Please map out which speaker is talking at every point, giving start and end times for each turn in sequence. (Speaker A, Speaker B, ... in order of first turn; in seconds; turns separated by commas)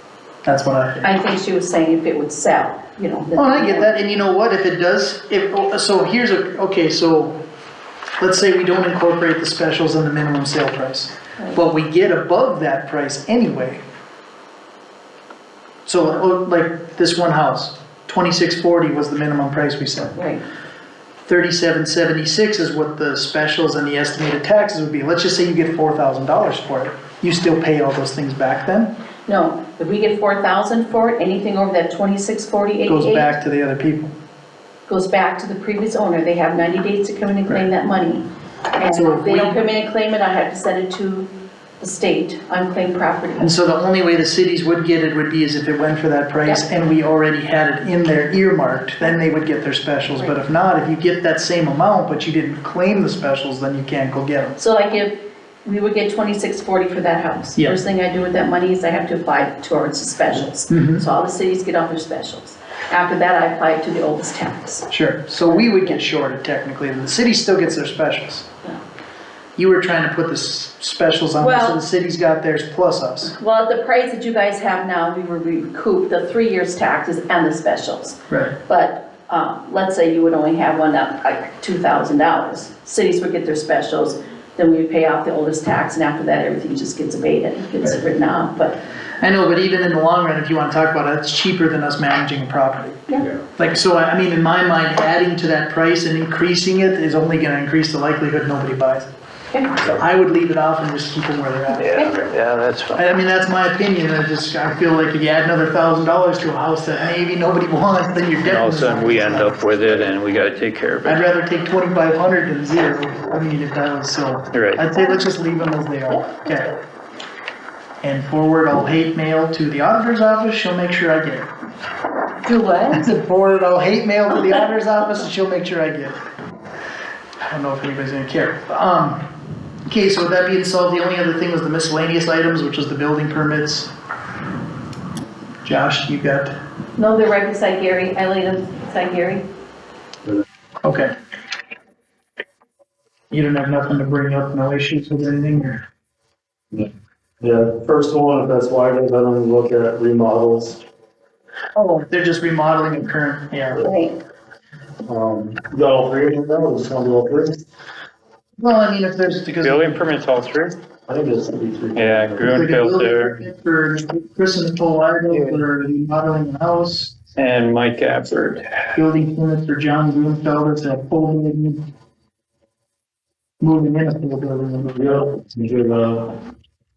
Speaker A: 0.5-1.1, Speaker B: 1.0-4.0, Speaker A: 3.4-7.4, Speaker A: 8.2-13.8, Speaker A: 15.9-20.2, Speaker B: 20.2-20.4, Speaker A: 21.3-28.9, Speaker B: 29.3-33.4, Speaker A: 32.9-34.1, Speaker B: 34.9-38.2, Speaker B: 38.8-41.3, Speaker A: 38.9-39.6, Speaker B: 41.8-43.5, Speaker A: 43.4-54.6, Speaker B: 54.6-64.9, Speaker A: 60.7-61.0, Speaker A: 64.9-68.5, Speaker B: 65.5-66.0, Speaker A: 69.6-73.3, Speaker B: 71.4-71.8, Speaker B: 73.3-88.8, Speaker A: 78.3-78.6, Speaker A: 89.2-99.1, Speaker B: 99.5-99.8, Speaker A: 99.8-102.0, Speaker C: 101.8-103.0, Speaker A: 103.0-109.6, Speaker C: 108.5-111.2, Speaker A: 111.0-116.8, Speaker C: 114.5-114.8, Speaker A: 118.0-121.5, Speaker B: 122.5-123.0, Speaker A: 122.9-126.2, Speaker A: 127.4-129.2, Speaker A: 129.9-133.9, Speaker A: 135.6-136.6, Speaker B: 137.0-139.5, Speaker A: 140.8-141.1, Speaker A: 143.3-145.8, Speaker D: 146.7-150.8, Speaker A: 151.8-153.9, Speaker B: 153.8-154.2, Speaker D: 155.1-157.6, Speaker A: 158.6-160.0, Speaker C: 159.6-160.8, Speaker D: 161.1-162.5, Speaker C: 162.0-163.4, Speaker A: 162.5-167.2, Speaker C: 165.3-165.6, Speaker C: 167.4-168.6, Speaker A: 168.9-171.8, Speaker A: 173.6-175.3, Speaker D: 174.9-176.4